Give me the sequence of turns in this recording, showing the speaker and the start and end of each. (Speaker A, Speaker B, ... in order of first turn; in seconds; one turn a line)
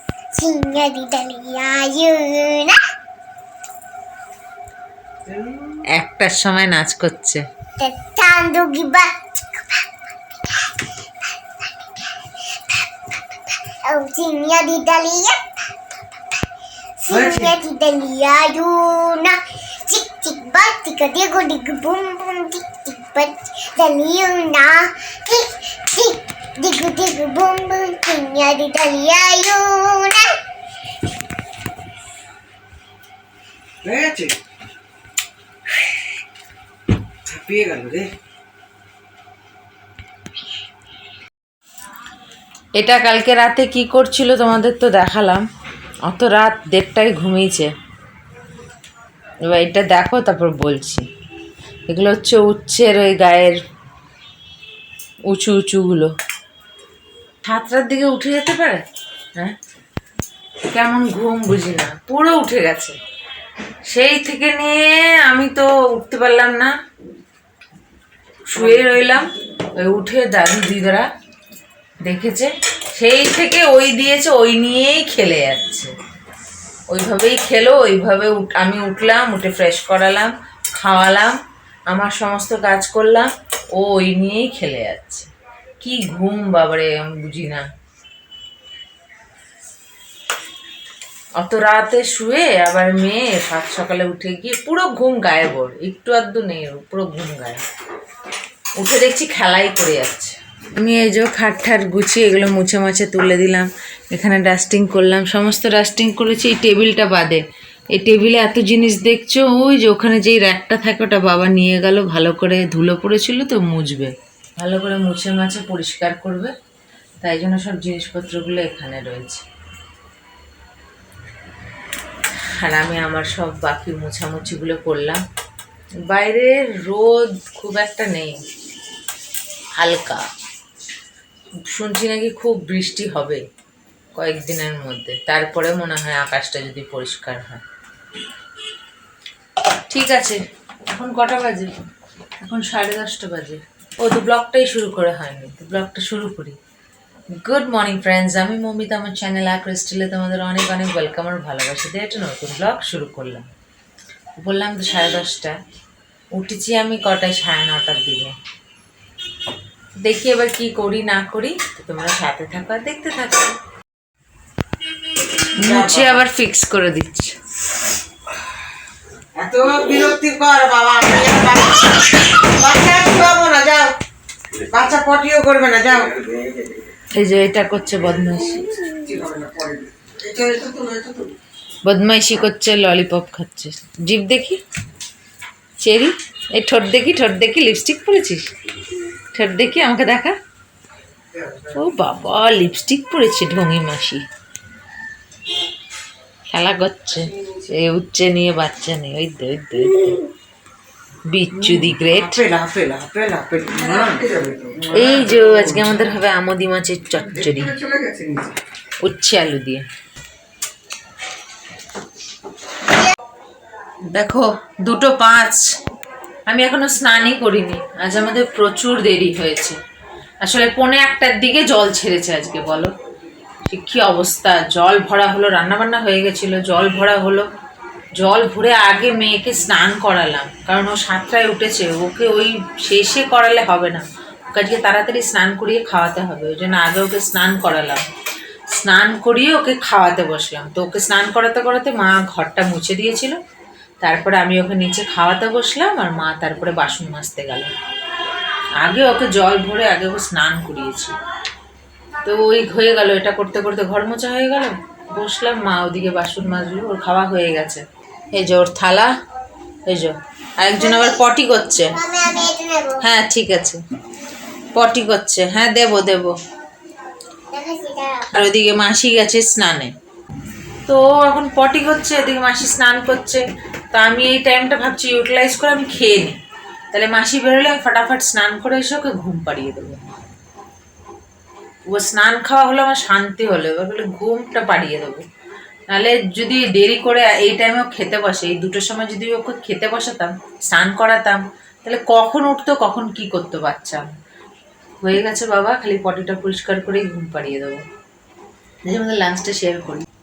Speaker A: 0.3-2.8
Speaker B: 5.3-5.8
Speaker C: 5.9-7.5
Speaker A: 7.8-16.4
Speaker A: 17.0-30.3
Speaker B: 17.1-17.6
Speaker B: 33.8-34.4
Speaker B: 37.3-38.1
Speaker C: 42.8-45.5
Speaker C: 46.1-47.7
Speaker C: 49.5-51.0
Speaker C: 51.9-53.6
Speaker C: 55.3-56.1
Speaker C: 57.4-58.8
Speaker C: 60.7-63.0
Speaker C: 63.9-66.7
Speaker C: 68.5-71.1
Speaker C: 72.0-75.9
Speaker C: 76.9-81.4
Speaker C: 81.9-87.7
Speaker C: 91.4-97.6
Speaker C: 98.8-116.5
Speaker C: 117.2-119.4
Speaker C: 122.5-125.2
Speaker C: 126.1-128.4
Speaker C: 129.8-130.2
Speaker C: 131.7-133.4
Speaker C: 134.2-137.6
Speaker C: 139.9-141.7
Speaker C: 142.4-146.6
Speaker C: 147.4-153.4
Speaker C: 154.4-155.6
Speaker C: 156.3-158.3
Speaker C: 160.0-163.6
Speaker C: 165.6-167.4
Speaker B: 165.6-166.2
Speaker B: 169.4-174.0
Speaker B: 174.6-176.7
Speaker C: 177.1-178.9
Speaker B: 178.9-181.4
Speaker C: 181.8-184.6
Speaker C: 185.8-188.5
Speaker C: 189.3-190.3
Speaker B: 191.3-191.8
Speaker C: 191.8-194.2
Speaker C: 196.5-200.2
Speaker C: 201.3-202.4
Speaker B: 201.6-205.9
Speaker C: 204.9-207.8
Speaker B: 207.4-208.6
Speaker C: 209.0-209.8
Speaker C: 214.1-215.6
Speaker C: 216.5-219.8
Speaker C: 220.4-222.9
Speaker C: 223.7-227.5
Speaker C: 228.2-238.1
Speaker C: 238.7-243.4
Speaker C: 244.0-247.7
Speaker C: 248.8-251.2
Speaker C: 252.2-259.1
Speaker C: 259.9-261.9
Speaker A: 260.8-261.3
Speaker A: 261.9-263.1
Speaker C: 263.0-263.8
Speaker C: 264.7-266.3
Speaker A: 267.5-268.3
Speaker C: 268.3-269.9
Speaker C: 270.9-276.4
Speaker C: 276.9-280.0
Speaker C: 281.9-285.2
Speaker C: 285.9-294.1
Speaker C: 295.0-297.8
Speaker C: 298.9-300.1